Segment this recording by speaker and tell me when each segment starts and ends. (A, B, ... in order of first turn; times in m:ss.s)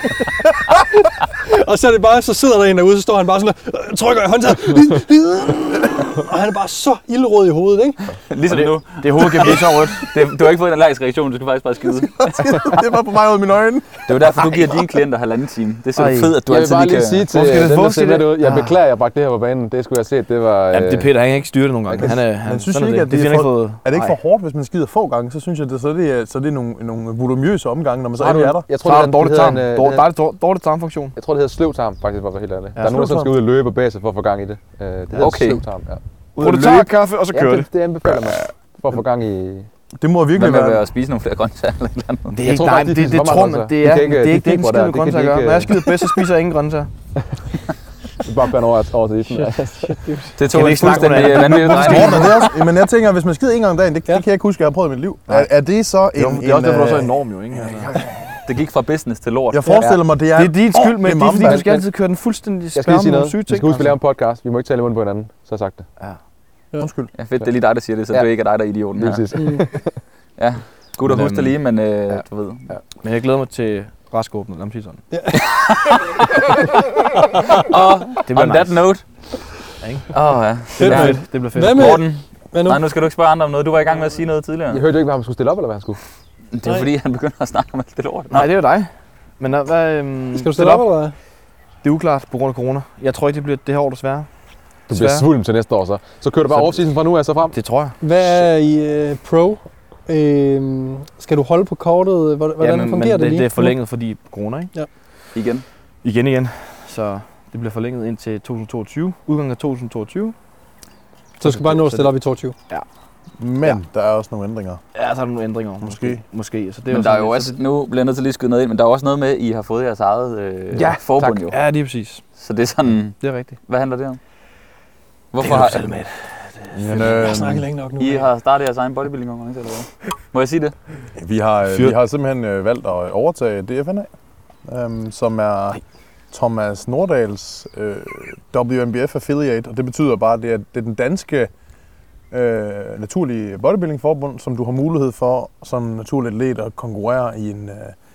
0:00.7-0:08.0 A
0:08.3-0:12.6 B
0:08.5-0:10.1 C
0:12.2-0:14.6 D
0:14.1-0:17.2 B
0:16.0-0:16.4 C
0:16.4-0:21.1 E
0:17.3-0:18.7 C
0:20.7-0:24.2 C
0:22.0-0:28.7 D
0:28.2-0:30.1 E
0:28.8-0:31.2 C
0:31.2-0:36.5 E
0:32.9-0:33.3 D
0:35.2-0:35.6 B
0:36.4-0:37.7 C
0:37.3-0:39.7 E
0:40.0-0:40.8 D
0:40.4-0:42.4 B
0:42.3-0:46.9 C
0:42.5-0:46.1 E
0:48.2-0:50.0 E
0:49.3-0:50.4 A
0:50.4-0:52.4 B
0:50.4-0:52.5 C
0:51.4-0:58.3 D
0:56.2-0:58.0 C
0:58.5-0:59.9 B
0:59.5-1:01.8 D
1:00.3-1:03.9 C
1:01.4-1:01.8 E
1:02.8-1:05.9 E
1:06.8-1:07.1 D
1:07.2-1:09.3 B
1:09.0-1:10.0 E
1:09.4-1:09.6 A
1:10.4-1:12.8 B
1:11.1-1:11.5 C
1:13.0-1:15.0 C
1:15.1-1:15.4 A
1:15.4-1:19.0 B
1:18.2-1:18.8 C
1:19.8-1:20.2 C
1:20.1-1:24.8 B
1:20.7-1:22.0 C
1:20.8-1:22.8 A
1:24.7-1:26.0 E
1:26.5-1:28.5 B
1:28.3-1:28.9 C
1:29.4-1:30.9 C
1:30.3-1:31.2 A
1:31.8-1:34.3 C
1:34.9-1:35.2 C
1:34.9-1:37.6 E
1:36.5-1:36.8 C
1:37.5-1:38.0 C
1:38.0-1:43.8 A
1:42.6-1:44.7 C
1:45.3-1:45.6 B
1:46.0-1:50.4 C
1:51.4-1:52.6 A
1:51.4-1:52.1 C
1:53.4-1:54.8 D
1:55.0-1:57.6 C
1:55.8-1:56.2 D
1:56.9-2:01.6 B
2:00.7-2:01.4 E
2:01.4-2:02.2 C
2:02.4-2:04.2 B
2:03.2-2:03.6 C
2:05.3-2:05.9 B
2:05.4-2:07.1 C
2:06.8-2:07.6 D
2:07.0-2:08.3 A
2:08.0-2:10.8 B
2:11.2-2:14.1 D
2:11.7-2:12.0 C
2:14.7-2:21.5 D
2:22.3-2:28.0 D